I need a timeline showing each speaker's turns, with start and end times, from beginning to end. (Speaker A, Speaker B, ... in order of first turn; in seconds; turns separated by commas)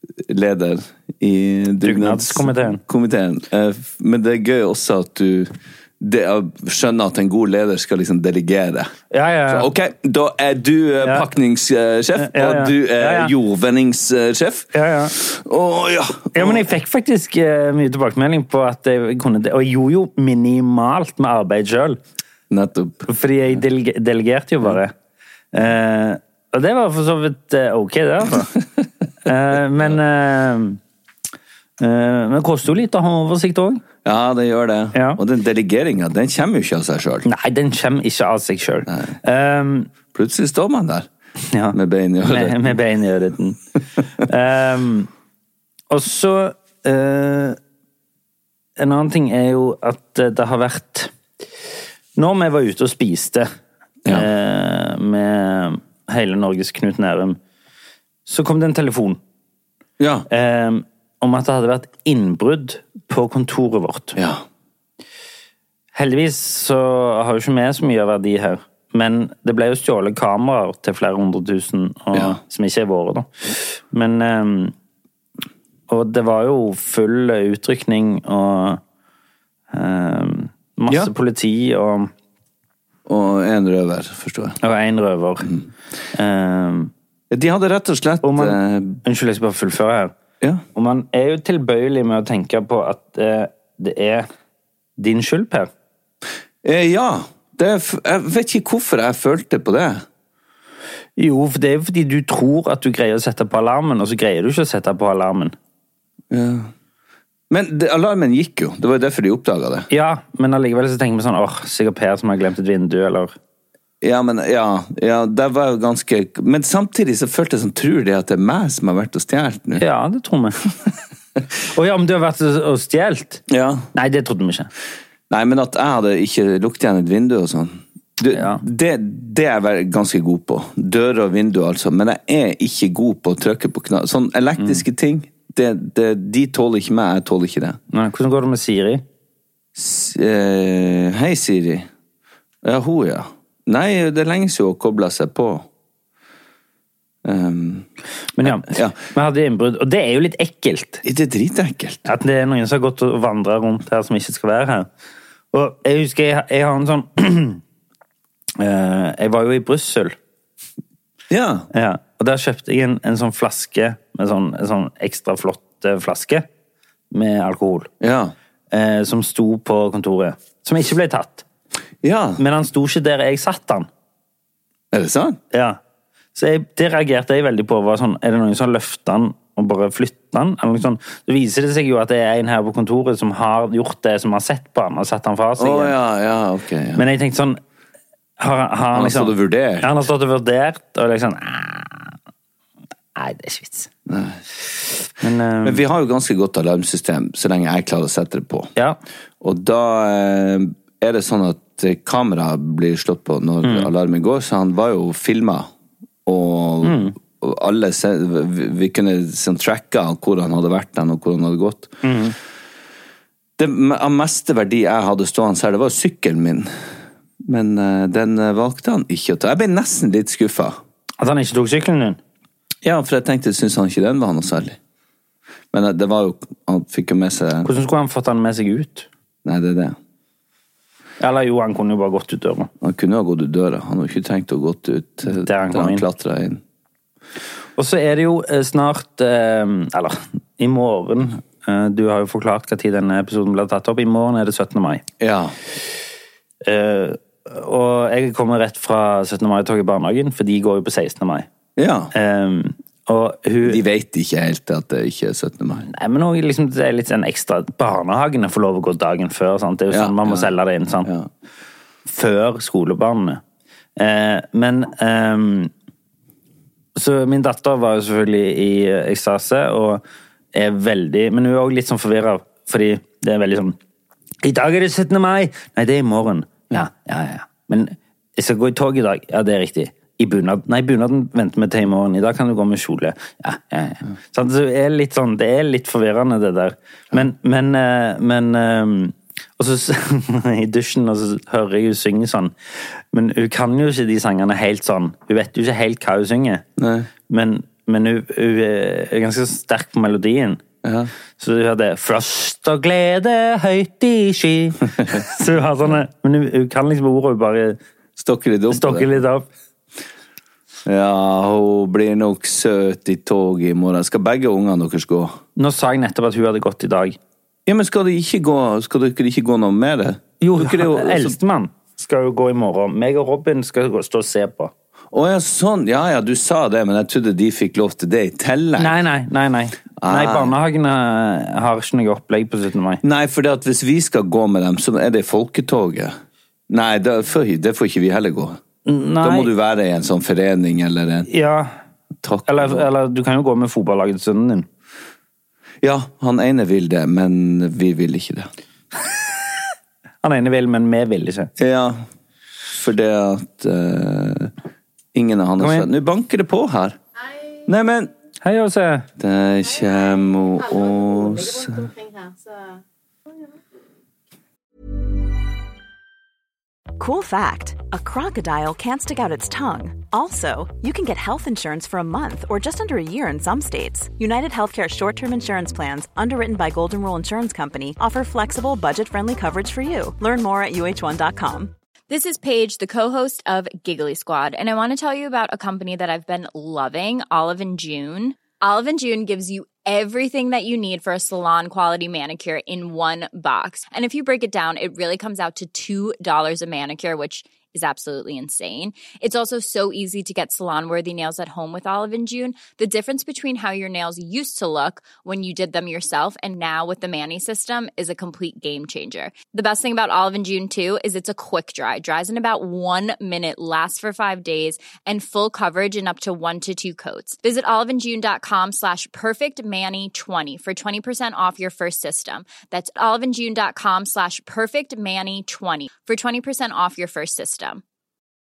Speaker A: 0.2-8.9, Speaker B: 1.8-2.8, Speaker B: 9.1-9.7, Speaker A: 9.5-16.7, Speaker B: 12.2-13.3, Speaker B: 14.7-15.1, Speaker B: 16.4-22.0, Speaker A: 22.5-23.6, Speaker B: 23.1-24.9, Speaker B: 25.5-28.6, Speaker B: 29.2-30.8, Speaker B: 31.8-33.8, Speaker A: 34.0-37.3, Speaker B: 34.9-35.2, Speaker B: 37.2-39.9, Speaker A: 38.9-39.1, Speaker A: 40.1-41.1, Speaker B: 41.5-43.6, Speaker A: 41.7-42.8, Speaker B: 44.2-45.1, Speaker B: 45.9-47.6, Speaker B: 48.8-51.1, Speaker B: 52.1-53.5, Speaker B: 54.1-57.4, Speaker B: 58.3-59.2, Speaker A: 60.0-60.3, Speaker B: 60.3-64.2, Speaker A: 64.2-64.4, Speaker B: 65.9-74.7, Speaker A: 72.1-72.4, Speaker B: 75.9-78.8, Speaker B: 79.7-82.1, Speaker A: 83.1-84.6, Speaker B: 84.6-85.5, Speaker B: 86.1-86.9, Speaker A: 87.3-89.0, Speaker B: 88.2-90.2, Speaker B: 90.8-94.3, Speaker B: 95.0-95.7, Speaker A: 96.6-100.0, Speaker B: 101.2-105.5, Speaker A: 106.3-106.7, Speaker A: 107.5-109.9, Speaker B: 109.9-113.3, Speaker A: 114.0-119.8, Speaker B: 119.8-120.6, Speaker B: 121.7-124.7, Speaker A: 123.5-123.9, Speaker A: 125.3-137.8, Speaker B: 128.3-128.6, Speaker B: 137.9-139.0, Speaker A: 139.8-141.9, Speaker A: 142.6-145.7, Speaker A: 147.2-147.9, Speaker B: 148.4-151.0, Speaker A: 148.4-149.0, Speaker A: 151.0-152.1, Speaker B: 152.1-154.9, Speaker B: 155.5-157.6, Speaker B: 158.6-160.2, Speaker A: 161.3-161.7, Speaker B: 161.7-166.5, Speaker B: 167.1-167.9, Speaker A: 168.0-168.3, Speaker B: 168.7-171.4, Speaker A: 172.0-172.4, Speaker B: 172.4-173.9, Speaker A: 174.9-175.4, Speaker B: 175.5-175.8, Speaker B: 176.3-185.9, Speaker A: 185.6-187.1, Speaker B: 187.0-187.6, Speaker B: 188.4-192.2, Speaker A: 188.9-189.9, Speaker B: 193.2-193.9, Speaker A: 194.1-194.4, Speaker B: 195.2-195.8, Speaker A: 195.6-198.7, Speaker A: 199.4-205.7, Speaker B: 203.6-203.9, Speaker A: 206.3-212.2, Speaker B: 206.8-207.1, Speaker B: 212.0-212.3, Speaker A: 213.6-216.7, Speaker A: 217.4-220.8, Speaker B: 221.2-222.2, Speaker A: 222.8-224.8, Speaker A: 225.7-227.7, Speaker B: 227.6-229.1, Speaker A: 229.4-230.0, Speaker B: 231.2-232.7, Speaker A: 232.8-236.6, Speaker B: 235.3-236.1, Speaker B: 237.8-245.0, Speaker A: 245.2-245.6, Speaker B: 246.6-251.5, Speaker A: 251.8-252.1, Speaker B: 252.1-253.8, Speaker A: 253.6-255.9, Speaker B: 255.9-261.1, Speaker A: 259.9-260.5, Speaker A: 261.0-261.3, Speaker B: 262.1-263.4, Speaker B: 264.0-265.7, Speaker B: 267.0-270.0, Speaker B: 270.5-273.8, Speaker B: 274.4-292.5, Speaker B: 293.1-296.6, Speaker A: 296.8-297.1, Speaker B: 297.3-300.6, Speaker A: 300.8-301.1, Speaker B: 301.4-307.8, Speaker A: 308.2-309.1, Speaker B: 308.7-309.5, Speaker A: 310.9-315.4, Speaker B: 315.6-317.2, Speaker A: 317.7-321.4, Speaker B: 320.4-324.7, Speaker A: 325.1-329.0, Speaker B: 328.8-333.0, Speaker A: 330.0-330.6, Speaker A: 333.0-336.1, Speaker A: 336.7-338.6, Speaker B: 338.9-339.5, Speaker A: 339.2-341.3, Speaker B: 341.3-341.7, Speaker A: 342.2-342.9, Speaker B: 342.5-344.7, Speaker A: 345.8-348.5, Speaker B: 350.2-351.5, Speaker A: 351.6-352.0, Speaker A: 352.7-354.5, Speaker A: 355.1-357.0, Speaker B: 355.6-355.9, Speaker A: 357.6-358.1, Speaker B: 358.4-359.1, Speaker A: 359.2-362.0, Speaker C: 367.0-381.7, Speaker D: 382.1-427.8